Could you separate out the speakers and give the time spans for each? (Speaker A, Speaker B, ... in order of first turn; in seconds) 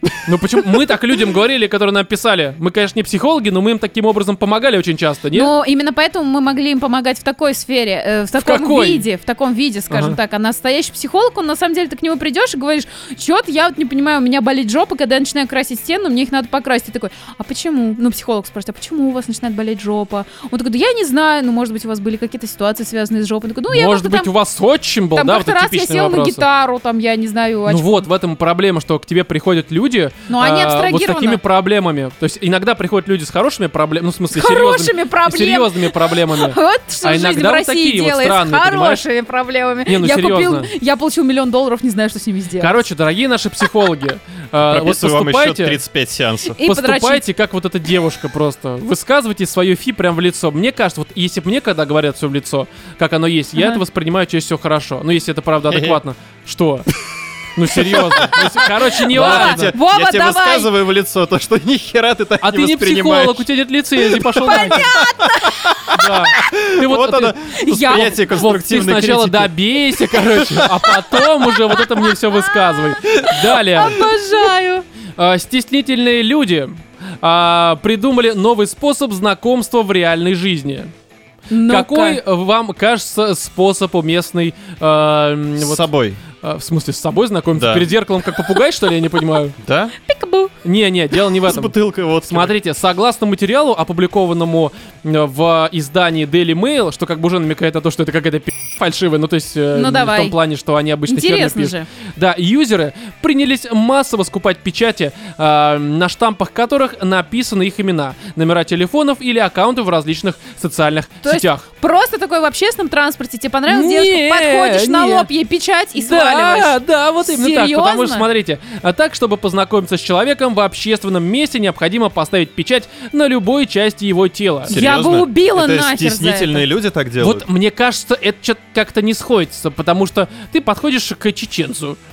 Speaker A: 0.2-5.5, 8.4-9.1, 9.9-10.2, 23.7-26.4, 27.7-39.0, 39.9-40.7, 42.6-45.8, 46.6-56.9, 57.5-59.8, 62.4-65.0, 65.9-74.1, 75.2-80.9, 81.7-85.9, 86.4-89.5, 90.6-91.7, 92.3-111.7, 113.7-115.3, 116.0-124.8, 127.2-132.0
Speaker B: 5.3-24.3, 25.1-28.1, 30.3-31.4, 34.3-42.8, 46.5-47.2, 53.6-53.8, 59.1-60.7, 64.4-65.8, 67.5-68.2, 73.3-74.8, 81.5-82.2, 90.0-90.5, 99.7-100.4, 101.1-101.9, 111.2-118.2, 124.7-126.6
Speaker C: 44.6-46.6, 55.7-56.0, 57.7-63.5, 64.1-71.3, 85.6-86.2, 87.5-87.9, 89.6-89.9, 91.5-92.5, 124.7-127.5